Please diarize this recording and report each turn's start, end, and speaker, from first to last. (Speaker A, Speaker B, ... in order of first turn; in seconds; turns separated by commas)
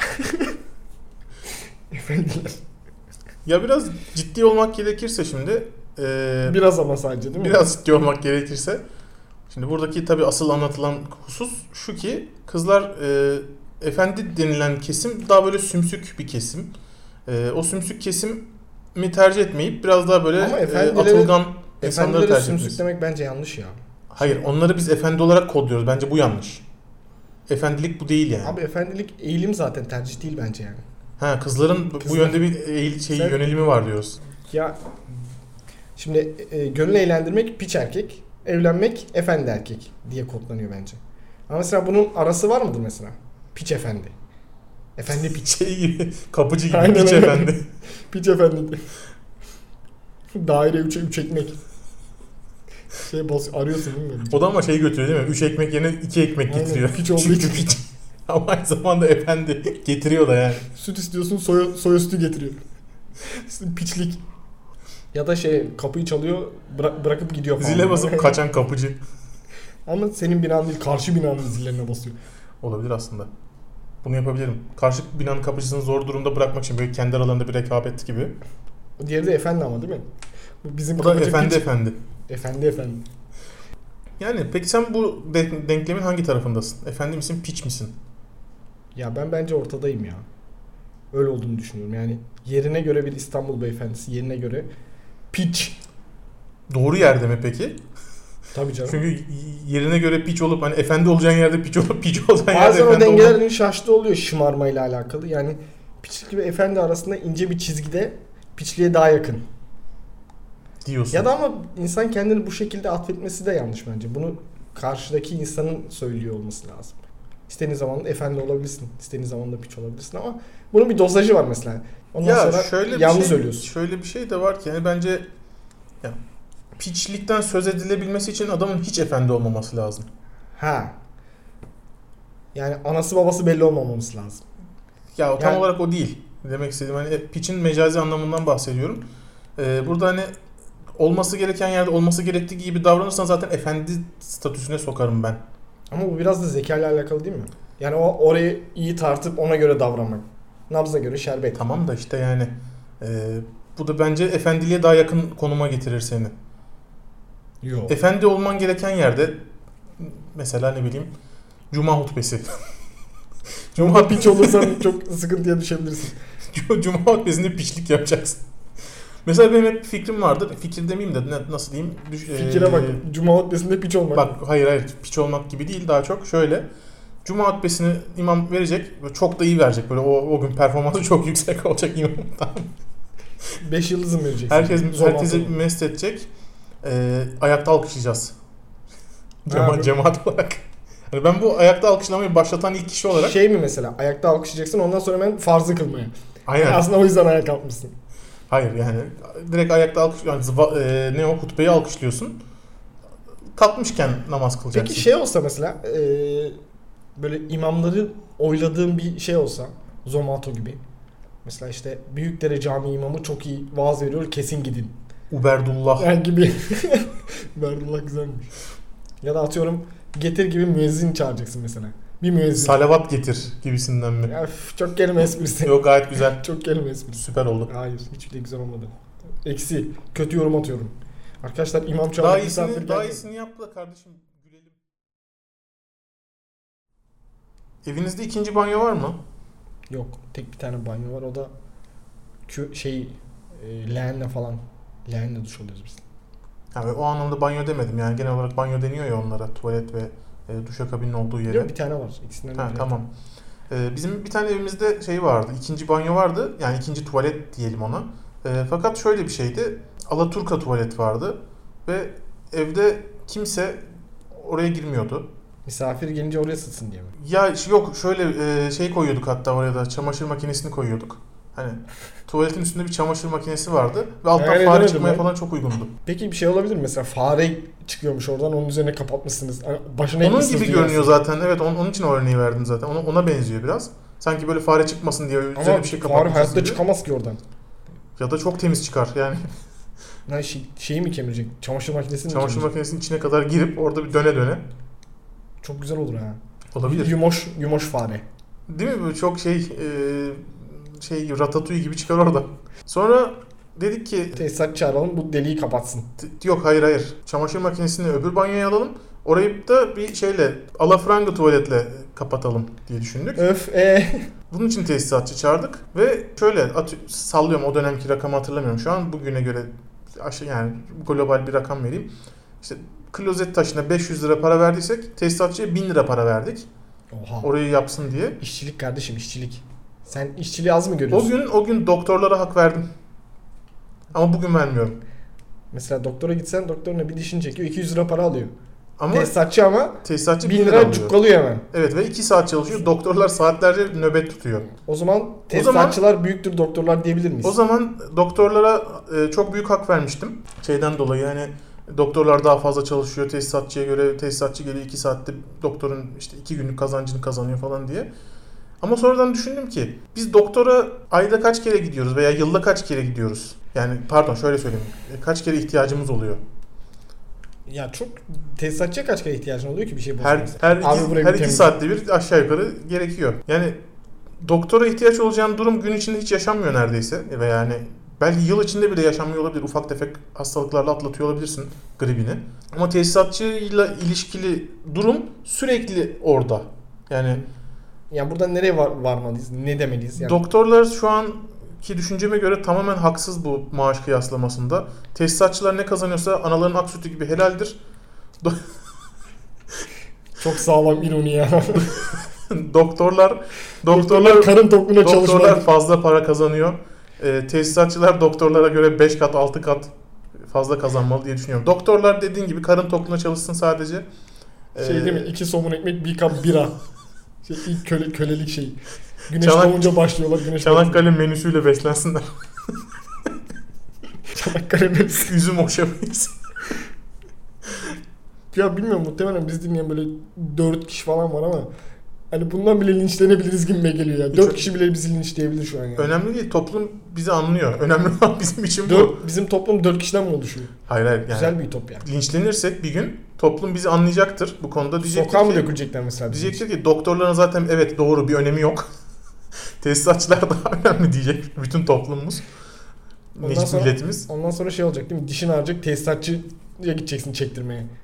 Speaker A: 1.9-2.5, Speaker B: 3.4-6.5, Speaker A: 6.5-7.6, Speaker B: 7.3-8.8, Speaker B: 9.5-16.7, Speaker B: 17.3-22.8, Speaker A: 20.4-24.4, Speaker B: 24.1-26.6, Speaker B: 27.5-28.6, Speaker A: 28.4-30.8, Speaker B: 31.2-34.2, Speaker A: 32.0-32.4, Speaker A: 33.1-33.4, Speaker A: 34.4-34.8, Speaker A: 36.0-41.0, Speaker A: 41.5-44.1, Speaker A: 45.0-45.5, Speaker B: 45.1-47.6, Speaker A: 46.7-47.5, Speaker A: 48.1-48.8, Speaker A: 50.3-51.6, Speaker A: 53.0-54.4, Speaker B: 54.3-60.6, Speaker A: 56.5-57.7, Speaker A: 60.7-62.6, Speaker A: 63.3-64.2, Speaker A: 65.1-68.4, Speaker B: 67.6-69.0, Speaker A: 69.9-72.2, Speaker B: 72.6-73.3, Speaker B: 74.0-78.3, Speaker A: 79.0-80.0, Speaker A: 80.6-81.7, Speaker B: 81.0-82.0, Speaker A: 82.3-83.0, Speaker B: 84.2-87.9, Speaker A: 88.9-90.2, Speaker A: 91.1-94.7, Speaker A: 95.3-95.8, Speaker B: 96.7-97.8, Speaker A: 98.5-99.0, Speaker B: 98.8-103.4, Speaker A: 102.5-109.4, Speaker B: 110.8-111.3, Speaker A: 111.1-116.9, Speaker A: 117.5-123.7, Speaker B: 122.2-125.3, Speaker B: 126.8-130.1, Speaker A: 130.6-130.9, Speaker A: 132.5-134.4, Speaker B: 135.2-139.0, Speaker A: 135.4-135.6, Speaker B: 139.6-140.3, Speaker B: 141.0-145.4, Speaker A: 145.9-151.6, Speaker B: 151.6-156.3, Speaker A: 157.6-157.9, Speaker B: 157.9-159.4, Speaker B: 160.0-161.1, Speaker B: 161.7-162.6, Speaker B: 163.7-164.8, Speaker A: 163.8-166.2, Speaker B: 166.5-168.4, Speaker B: 169.2-173.0, Speaker A: 172.3-174.3, Speaker B: 174.1-176.7, Speaker B: 177.2-182.7, Speaker A: 183.6-185.6, Speaker B: 184.5-186.3, Speaker B: 186.8-188.3, Speaker B: 189.4-193.3, Speaker A: 189.5-189.9, Speaker A: 193.1-197.9, Speaker B: 196.4-196.9, Speaker B: 198.5-202.4, Speaker B: 203.5-205.1, Speaker A: 204.7-206.6, Speaker A: 207.2-210.8, Speaker A: 211.4-214.9, Speaker B: 215.3-216.1, Speaker A: 216.0-218.5, Speaker A: 219.2-222.8, Speaker B: 222.6-224.3, Speaker A: 224.3-228.9, Speaker B: 225.6-226.4, Speaker B: 227.2-227.7, Speaker A: 229.4-233.2, Speaker B: 232.2-234.8, Speaker B: 237.8-239.2, Speaker A: 239.9-241.5, Speaker A: 242.5-246.0, Speaker B: 246.7-251.7, Speaker A: 251.5-252.9, Speaker B: 252.6-253.1, Speaker B: 253.7-263.8, Speaker B: 264.3-265.3, Speaker A: 265.6-267.1, Speaker B: 267.2-275.9, Speaker A: 274.3-275.3, Speaker A: 276.1-281.1, Speaker B: 280.2-286.8, Speaker A: 285.5-287.4, Speaker B: 288.2-289.4, Speaker A: 290.3-292.7, Speaker B: 292.3-294.6, Speaker A: 295.6-298.2, Speaker B: 296.7-297.1, Speaker B: 298.7-304.4, Speaker A: 304.3-306.1, Speaker B: 306.2-313.4, Speaker A: 313.4-314.3, Speaker B: 314.5-326.7, Speaker A: 327.1-327.5, Speaker B: 327.4-328.4, Speaker A: 328.4-331.3, Speaker B: 331.1-332.9, Speaker B: 334.1-334.9, Speaker A: 335.7-338.5, Speaker B: 339.0-339.3, Speaker A: 339.1-341.6, Speaker B: 340.0-341.1, Speaker B: 341.7-344.7, Speaker A: 344.8-347.6, Speaker B: 345.5-346.0, Speaker B: 347.4-358.1, Speaker B: 358.8-366.4, Speaker A: 367.7-371.7, Speaker B: 370.2-373.8, Speaker B: 374.4-387.4, Speaker A: 388.1-390.4, Speaker B: 390.2-397.8, Speaker A: 400.4-401.9, Speaker B: 401.8-409.9, Speaker A: 403.9-405.7, Speaker B: 410.5-414.1, Speaker B: 414.7-415.3, Speaker A: 414.8-416.7, Speaker A: 417.4-418.8, Speaker A: 419.3-421.0, Speaker B: 419.4-420.0, Speaker B: 420.6-422.3, Speaker A: 424.3-425.3, Speaker B: 425.2-426.3, Speaker A: 428.5-431.7, Speaker A: 432.3-436.1, Speaker B: 434.3-434.6, Speaker B: 436.0-439.2, Speaker A: 438.9-440.7, Speaker B: 440.9-445.7, Speaker A: 441.3-442.1, Speaker A: 445.0-446.6, Speaker B: 446.3-448.9, Speaker B: 449.8-452.4, Speaker B: 453.4-454.2, Speaker A: 453.4-457.9